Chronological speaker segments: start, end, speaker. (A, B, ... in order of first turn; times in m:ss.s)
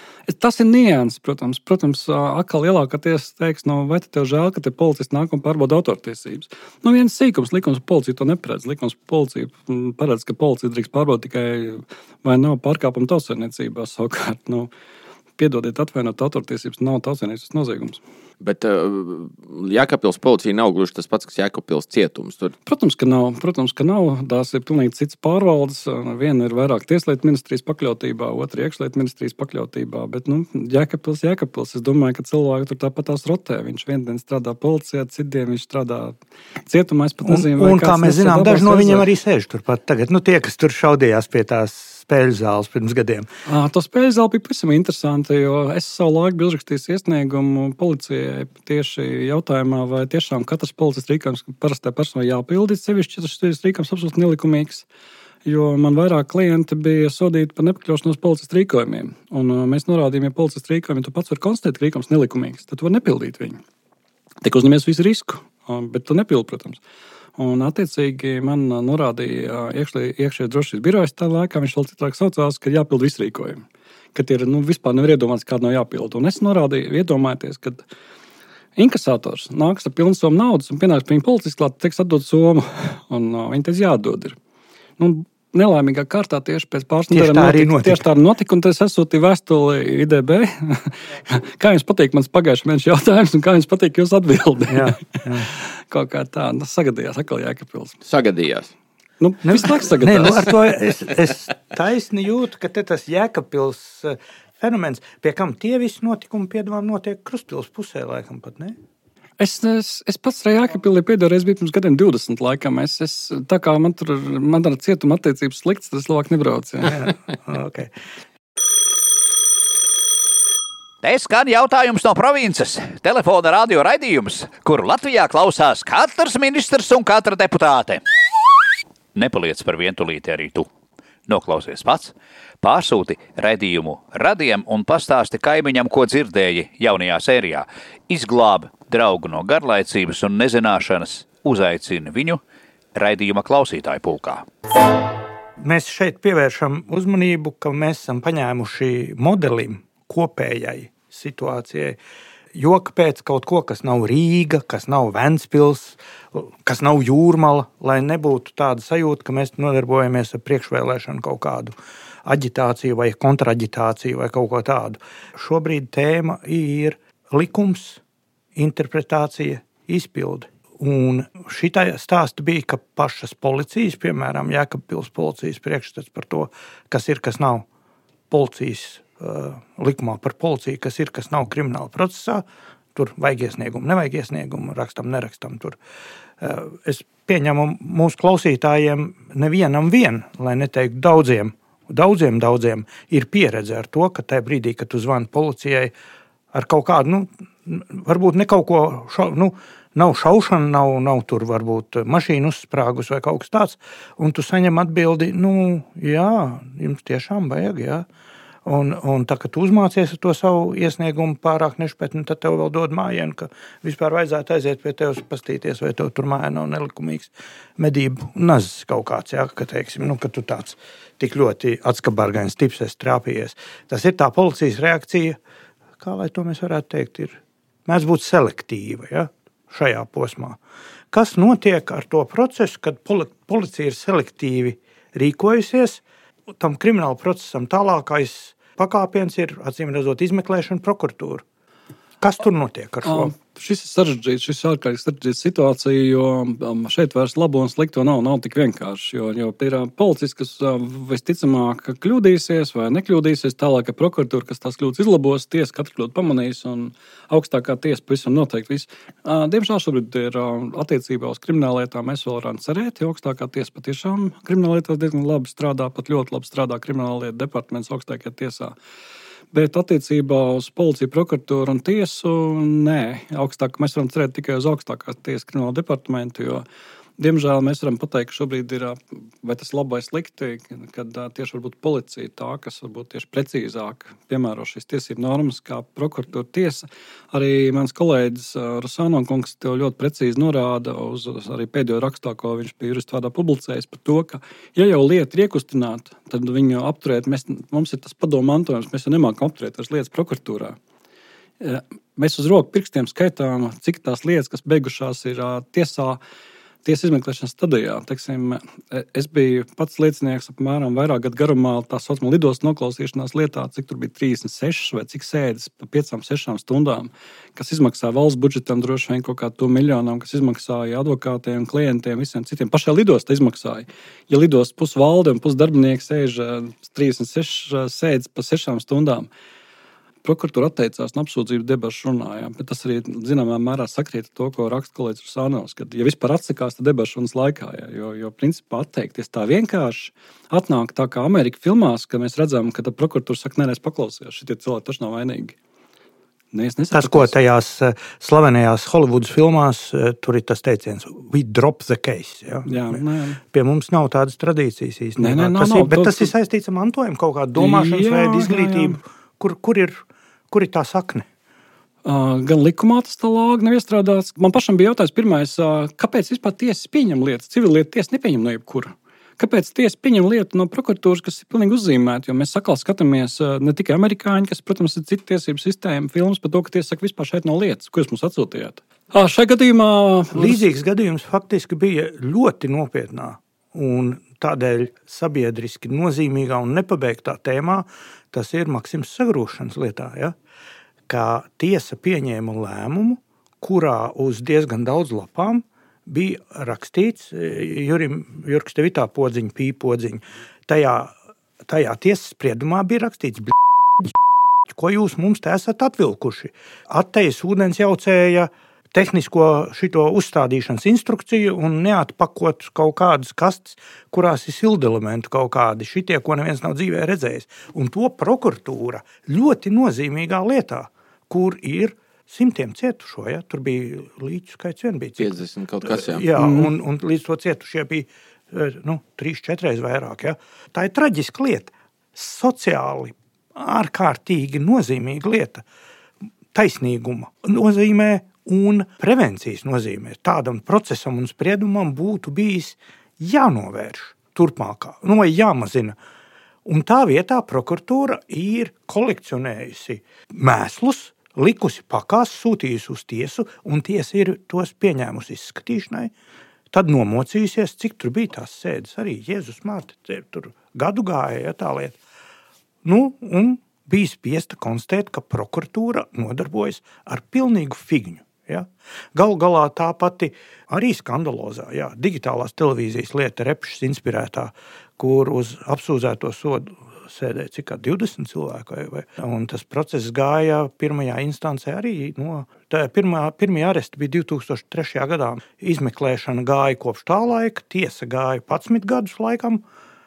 0:00.3-0:14.7 A
0:15.4-0:18.0 A
0:18.4-0:22.5 B
0:22.7-0:39.1 A
0:37.2-0:43.3 C
0:43.4-0:54.8 A
0:55.4-1:03.6 A
1:04.4-1:06.8 A
1:07.4-1:13.6 A
1:14.1-1:17.8 A
1:18.8-1:24.4 A
1:25.0-1:38.0 A
1:27.1-1:28.0 C
1:34.7-1:35.5 C
1:38.0-1:38.7 B
1:39.2-1:40.5 A
1:39.4-1:48.8 C
1:49.4-1:57.1 A
1:56.8-1:57.9 C
2:01.0-2:08.0 D
2:09.1-2:10.7 D
2:11.3-2:22.4 D
2:22.9-2:24.4 D
2:25.6-2:32.0 C
2:32.5-2:48.0 C
2:48.5-2:57.6 C
2:58.3-3:05.8 C
3:06.4-3:15.9 C
3:16.5-3:28.0 C
3:28.6-3:45.4 C
3:46.0-3:50.6 C
3:51.1-3:56.0 C
3:56.5-4:01.4 C
4:02.2-4:03.3 C
4:03.0-4:28.7 A
4:29.5-4:36.6 A
4:37.2-5:00.8 A
5:01.6-5:06.2 A
5:06.8-5:29.3 A
5:30.2-5:45.6 A
5:46.5-5:47.3 A
5:46.9-6:01.2 C
5:52.6-5:53.4 A
5:55.2-5:56.3 A
5:57.6-5:59.0 A
6:02.0-6:20.6 A
6:20.3-6:30.3 C
6:31.1-6:41.1 C
6:41.6-6:44.1 C
6:44.7-7:15.6 C
7:05.2-7:06.4 B
7:06.4-7:06.7 A
7:16.5-7:26.0 C
7:26.6-7:36.1 C
7:36.7-7:42.0 C
7:42.8-8:09.6 C